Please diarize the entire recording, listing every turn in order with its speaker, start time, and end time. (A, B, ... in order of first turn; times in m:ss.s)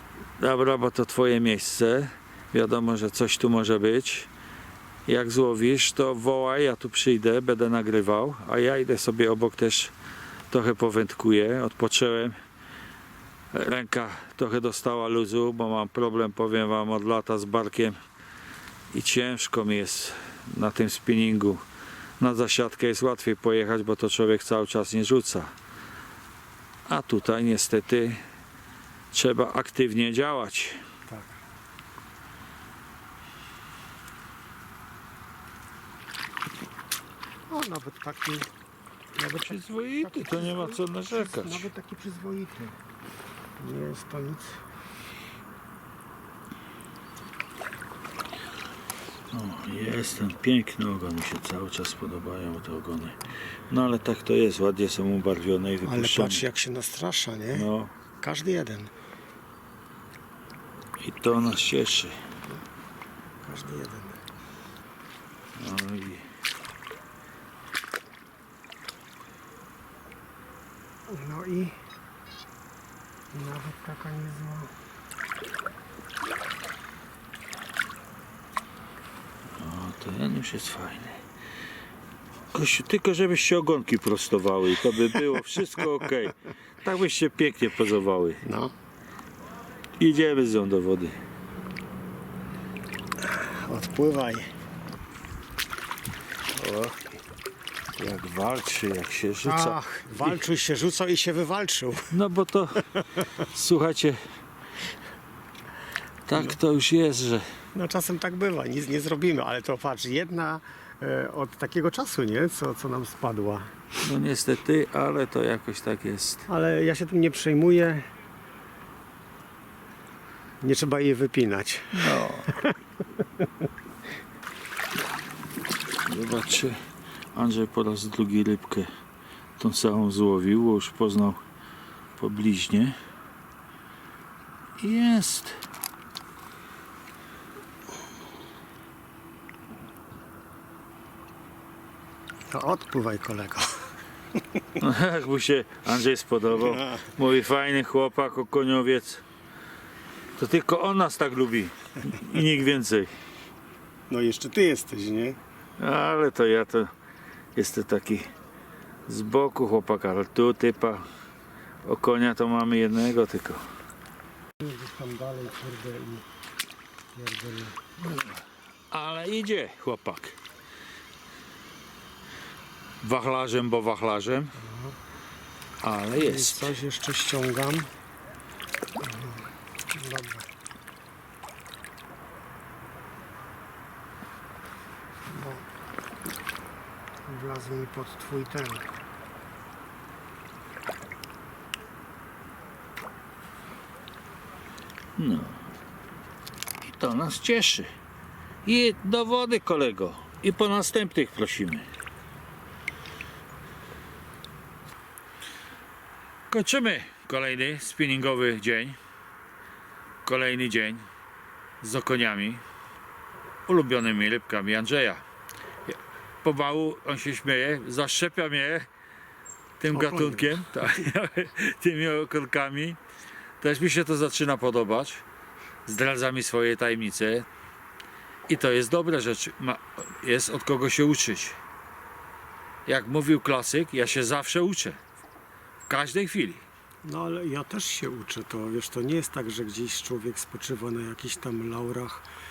0:00.4-0:04.3 A
0:05.1-0:09.9 A
0:10.5-0:12.4 A
0:13.5-0:18.0 A
0:18.9-0:21.6 A
0:22.2-0:25.5 A
0:26.9-0:28.2 A
0:29.1-0:30.8 A
0:31.1-0:31.4 B
0:37.5-0:38.5 B
0:39.2-0:42.8 B
0:39.4-0:41.7 A
0:43.6-0:44.6 B
0:49.3-0:56.4 A
0:55.8-0:57.7 B
0:57.5-0:57.9 A
0:58.2-0:58.9 B
1:01.0-1:02.2 A
1:03.4-1:04.2 B
1:05.6-1:06.3 A
1:11.1-1:11.8 B
1:13.3-1:14.7 B
1:19.6-1:21.2 A
1:22.5-1:28.4 A
1:28.4-1:28.7 B
1:30.0-1:31.2 A
1:33.2-1:34.5 B
1:36.5-1:37.0 A
1:38.0-1:40.4 A
1:39.4-1:42.2 B
1:42.1-1:42.8 A
1:43.4-1:44.2 A
1:46.3-1:47.5 A
1:47.7-1:53.8 B
1:54.0-1:56.5 A
1:56.5-1:58.1 B
2:00.6-2:02.7 B
2:01.9-2:02.6 A
2:06.0-2:06.8 A
2:07.3-2:08.9 A
2:09.6-2:11.4 A
2:12.2-2:13.0 A
2:14.8-2:15.6 A
2:22.5-2:24.8 B
2:24.8-2:29.2 A
2:26.6-2:27.1 B
2:30.4-2:33.1 A
2:34.1-2:35.4 B
2:35.8-2:36.9 A
2:37.6-2:38.3 A
2:39.1-2:41.0 A
2:41.8-2:43.6 A
2:44.6-2:46.3 B
2:47.2-2:48.0 B
2:48.9-2:50.4 A
2:53.0-2:54.6 A
2:54.6-2:55.0 B
2:55.8-2:56.8 A
2:56.2-2:57.9 B
2:59.0-3:00.5 B
3:05.3-3:05.6 B
3:07.3-3:08.9 B
3:15.2-3:15.6 A
3:16.8-3:17.9 A
3:18.6-3:21.9 A
3:26.5-3:29.0 A
3:30.2-3:31.1 A
3:31.8-3:32.6 A
3:33.7-3:35.2 A
3:35.9-3:38.9 A
3:39.8-3:43.0 A
3:39.9-3:40.6 B
3:43.6-3:45.2 A
3:45.9-3:47.5 A
3:48.5-3:51.6 A
3:52.9-3:55.0 A
3:55.9-3:56.6 A
3:57.0-4:02.2 B